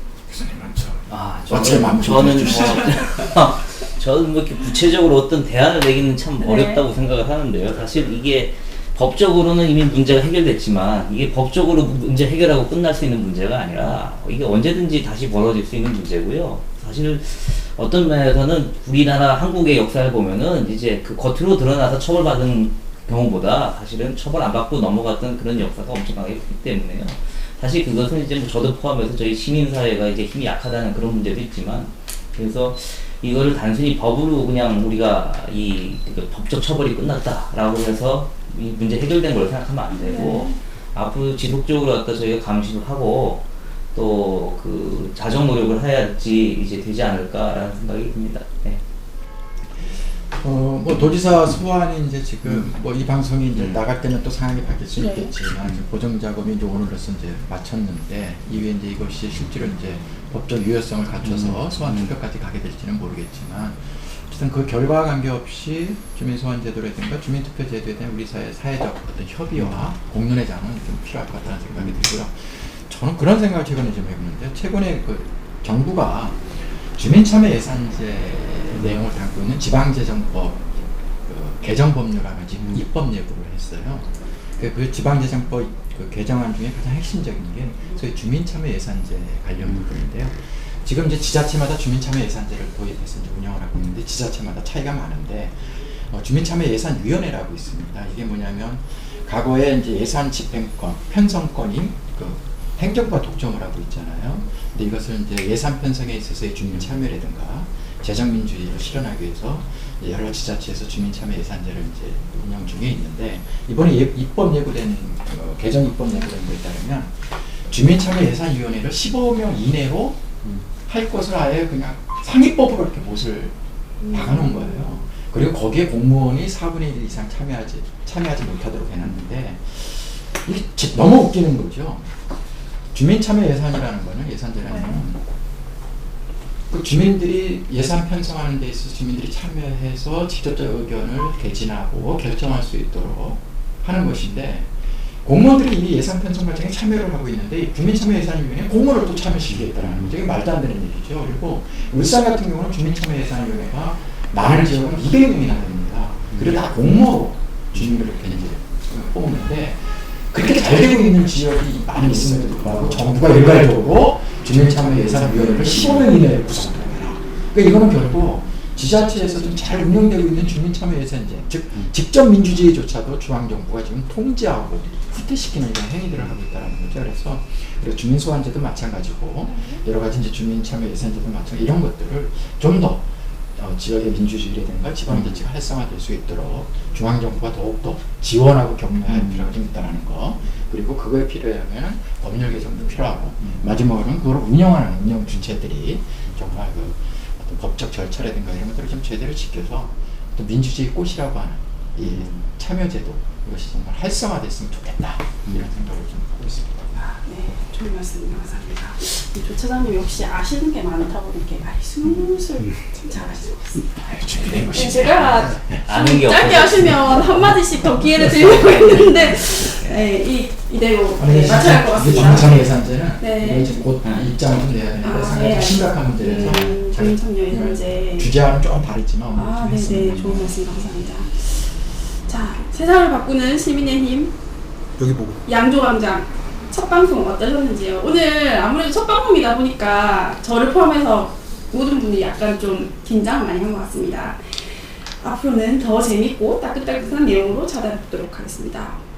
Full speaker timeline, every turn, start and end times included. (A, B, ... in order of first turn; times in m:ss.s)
0:00.3-0:03.4 A
0:01.1-0:48.8 B
0:01.6-0:02.0 C
0:06.4-0:06.8 C
0:40.0-0:40.6 C
0:49.9-2:00.2 A
0:55.0-0:55.3 C
1:01.2-1:02.1 B
2:00.9-2:03.6 A
2:04.0-2:05.0 C
2:04.1-2:12.1 A
2:12.9-2:15.2 A
2:14.7-2:15.0 C
2:16.7-3:26.9 A
2:29.7-2:30.0 B
3:09.1-3:09.5 B
3:22.0-3:22.4 B
3:27.0-3:33.9 C
3:34.0-3:35.8 A
3:34.7-3:42.7 C
3:35.8-3:37.5 B
3:38.1-3:40.0 B
3:41.2-3:50.6 A
3:43.2-3:43.7 C
3:45.0-3:48.3 C
3:49.3-3:54.4 C
3:55.0-3:55.4 A
3:55.4-4:09.0 C